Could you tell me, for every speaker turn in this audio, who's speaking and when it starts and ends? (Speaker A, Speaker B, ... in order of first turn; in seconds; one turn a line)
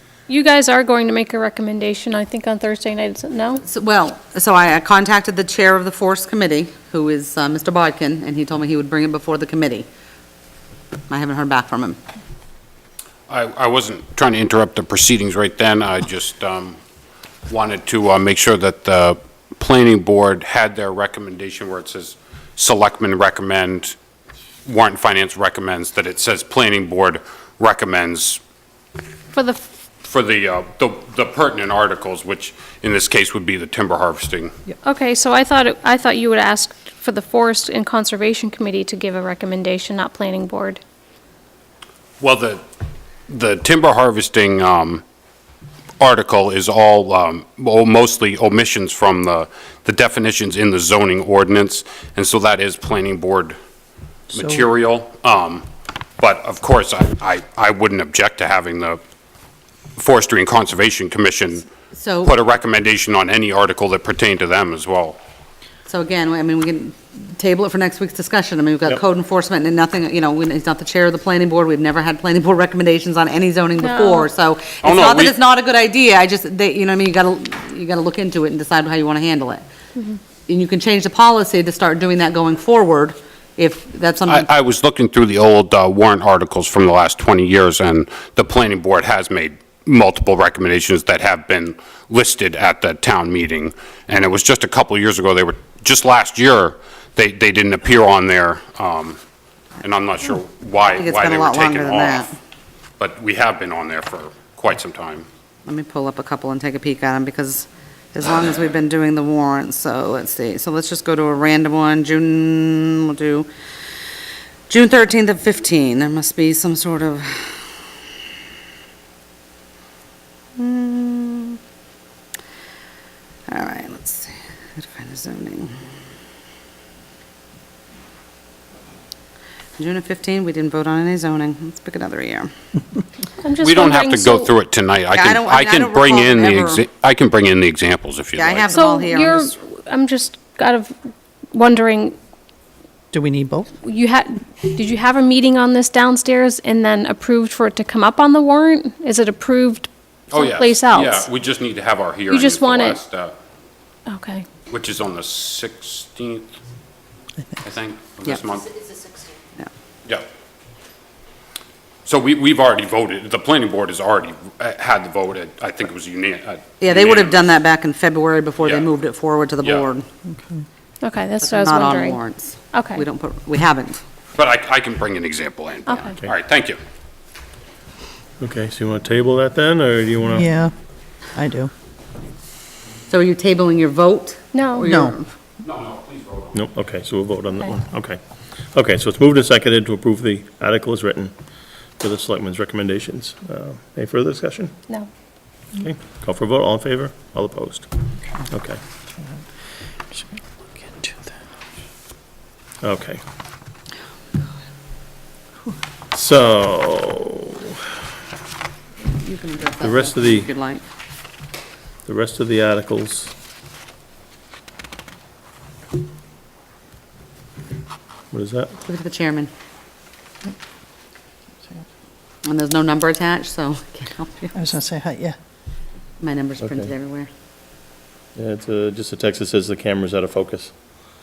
Speaker A: 0.3-3.6
Speaker B: 3.7-9.9
Speaker B: 11.1-12.0
Speaker C: 13.3-16.8
Speaker C: 17.5-24.0
Speaker C: 24.6-28.4
Speaker A: 29.3-29.6
Speaker C: 30.0-34.5
Speaker A: 34.8-40.8
Speaker C: 42.2-42.6
Speaker C: 43.3-45.0
Speaker C: 46.0-53.6
Speaker C: 54.3-55.6
Speaker C: 56.2-59.0
Speaker C: 60.0-61.7
Speaker B: 61.9-62.4
Speaker C: 62.2-65.2
Speaker B: 65.9-79.6
Speaker A: 73.8-74.3
Speaker C: 74.8-75.3
Speaker B: 80.5-84.5
Speaker C: 84.3-99.2
Speaker C: 99.8-102.3
Speaker B: 100.8-102.3
Speaker C: 103.0-105.3
Speaker B: 105.7-113.5
Speaker B: 114.7-117.5
Speaker B: 120.6-121.6
Speaker B: 123.5-125.8
Speaker B: 129.8-132.5
Speaker A: 133.4-134.5
Speaker C: 133.6-138.8
Speaker B: 135.1-136.9
Speaker B: 138.4-139.5
Speaker A: 138.7-140.9
Speaker A: 141.5-142.2
Speaker D: 143.1-143.7
Speaker A: 143.8-151.3
Speaker C: 150.3-153.4
Speaker A: 152.3-153.0
Speaker A: 154.1-154.5
Speaker C: 154.7-156.5
Speaker C: 157.6-158.9
Speaker C: 162.1-167.4
Speaker B: 166.8-170.1
Speaker C: 168.6-168.9
Speaker C: 169.6-169.9
Speaker D: 170.3-170.6
Speaker A: 171.0-172.2
Speaker B: 171.4-174.0
Speaker A: 172.7-173.0
Speaker C: 174.3-176.8
Speaker A: 175.9-176.2
Speaker E: 178.4-180.5
Speaker D: 180.3-180.7
Speaker D: 181.3-181.7
Speaker B: 183.1-185.3
Speaker A: 184.5-184.9
Speaker D: 184.8-185.2
Speaker C: 185.6-186.6
Speaker E: 186.5-188.2
Speaker E: 188.7-191.3
Speaker E: 192.0-194.8
Speaker E: 195.8-197.9
Speaker E: 198.5-198.8
Speaker D: 200.1-201.2
Speaker E: 202.8-203.2
Speaker E: 206.1-207.8
Speaker B: 209.1-210.8
Speaker E: 209.8-210.5
Speaker E: 212.1-213.3
Speaker E: 218.3-218.7
Speaker B: 218.8-219.5
Speaker B: 222.4-224.8
Speaker D: 224.5-225.4
Speaker B: 226.2-227.3
Speaker E: 226.6-226.9
Speaker E: 228.4-230.7